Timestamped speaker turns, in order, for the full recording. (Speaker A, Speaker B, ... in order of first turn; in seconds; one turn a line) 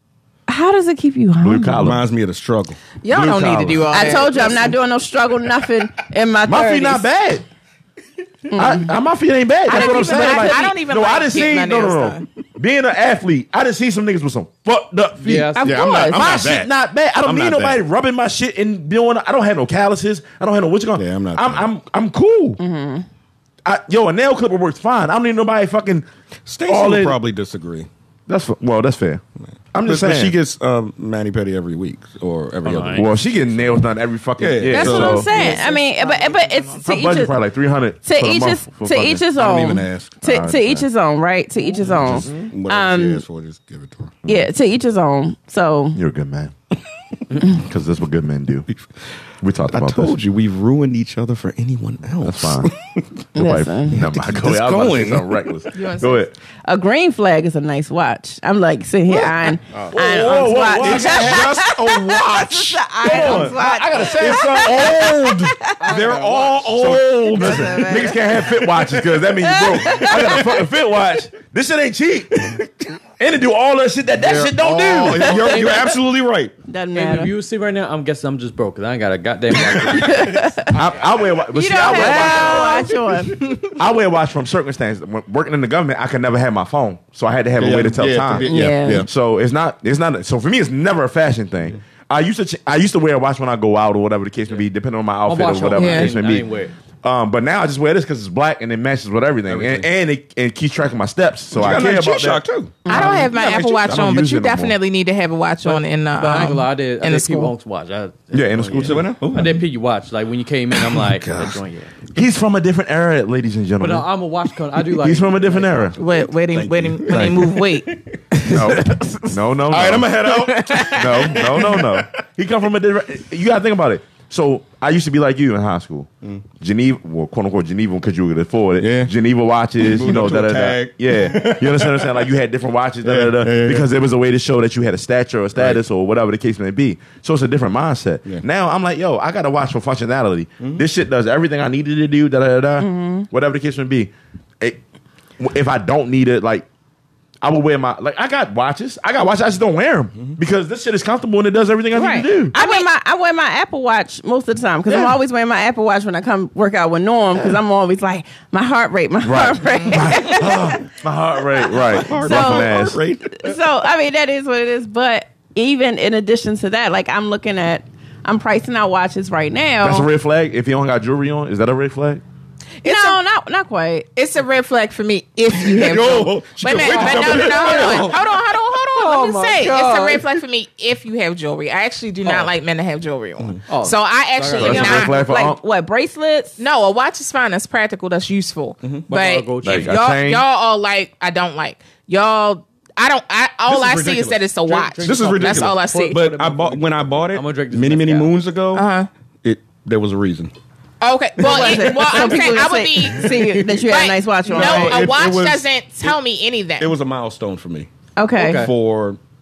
Speaker A: 0.5-1.9
Speaker B: 1.4-2.0
Speaker C: 1.8-2.8
Speaker D: 3.0-4.8
Speaker B: 3.1-4.2
Speaker A: 3.9-7.1
Speaker B: 6.5-7.4
Speaker A: 8.5-8.9
Speaker B: 8.6-22.6
Speaker D: 9.7-12.2
Speaker A: 9.7-10.7
Speaker E: 15.2-15.8
Speaker A: 15.6-16.5
Speaker C: 15.6-17.8
Speaker C: 21.0-21.7
Speaker A: 22.6-23.1
Speaker B: 23.6-26.1
Speaker C: 26.5-27.9
Speaker B: 26.7-27.2
Speaker B: 28.3-29.2
Speaker B: 29.7-30.3
Speaker C: 29.9-33.1
Speaker E: 32.6-33.1
Speaker B: 32.9-35.6
Speaker C: 34.4-35.3
Speaker A: 34.6-37.3
Speaker D: 34.9-37.0
Speaker B: 36.8-39.3
Speaker A: 38.0-43.2
Speaker C: 39.4-40.1
Speaker B: 40.2-40.9
Speaker C: 42.0-44.2
Speaker B: 42.1-42.5
Speaker A: 44.3-46.0
Speaker B: 46.0-46.5
Speaker B: 47.4-48.7
Speaker B: 49.4-50.2
Speaker C: 49.7-53.0
Speaker B: 52.2-52.7
Speaker B: 53.4-56.3
Speaker A: 53.4-54.0
Speaker C: 54.0-55.6
Speaker D: 55.7-56.2
Speaker A: 56.7-65.8
Speaker C: 59.1-60.0
Speaker B: 59.9-61.6
Speaker C: 60.6-69.0
Speaker B: 63.0-65.3
Speaker E: 65.8-66.7
Speaker B: 66.7-75.6
Speaker A: 67.3-68.3
Speaker A: 69.4-70.5
Speaker C: 69.7-70.6
Speaker C: 74.2-76.5
Speaker A: 75.2-75.6
Speaker E: 75.4-75.8
Speaker A: 76.7-77.3
Speaker E: 77.0-80.5
Speaker A: 79.8-80.7
Speaker C: 79.9-80.1
Speaker B: 80.7-82.9
Speaker A: 81.5-83.3
Speaker C: 82.0-83.3
Speaker B: 83.8-96.5
Speaker C: 87.6-89.1
Speaker A: 88.4-89.1
Speaker E: 95.3-96.7
Speaker D: 95.8-96.1
Speaker B: 97.0-104.8
Speaker C: 99.5-99.9
Speaker C: 101.5-103.8
Speaker A: 102.9-103.3
Speaker D: 102.9-107.5
Speaker E: 105.6-112.0
Speaker B: 108.3-109.1
Speaker C: 108.7-109.6
Speaker C: 110.7-111.6
Speaker B: 112.2-114.1
Speaker E: 113.8-116.0
Speaker B: 115.0-116.0
Speaker D: 116.0-117.9
Speaker C: 116.5-119.0
Speaker B: 117.1-117.5
Speaker B: 118.5-120.2
Speaker C: 119.7-122.1
Speaker D: 120.3-121.4
Speaker B: 120.9-144.8
Speaker C: 128.8-129.1
Speaker C: 129.8-132.3
Speaker C: 133.0-133.9
Speaker C: 135.6-135.8
Speaker A: 142.8-143.3
Speaker B: 145.4-146.7
Speaker B: 147.4-152.6
Speaker A: 151.9-160.8
Speaker D: 152.6-152.8
Speaker B: 154.9-155.2
Speaker B: 159.2-163.0
Speaker C: 161.7-163.4
Speaker A: 162.2-170.1
Speaker B: 169.8-172.2
Speaker D: 172.8-173.2
Speaker A: 172.8-174.1
Speaker D: 174.2-185.2
Speaker C: 175.5-178.4
Speaker E: 176.7-178.2
Speaker E: 178.9-180.3
Speaker E: 182.2-182.5
Speaker E: 183.7-185.1
Speaker B: 184.6-185.6
Speaker A: 184.7-186.6
Speaker D: 186.6-196.2
Speaker E: 189.1-189.9
Speaker B: 189.6-190.5
Speaker C: 193.7-198.9
Speaker E: 194.7-198.3
Speaker D: 198.7-199.1
Speaker C: 199.4-200.5
Speaker D: 201.0-206.9
Speaker A: 201.4-205.1
Speaker C: 201.4-202.3
Speaker C: 203.0-203.5
Speaker C: 204.5-206.2
Speaker C: 206.8-209.2
Speaker A: 208.2-208.7
Speaker E: 208.4-208.7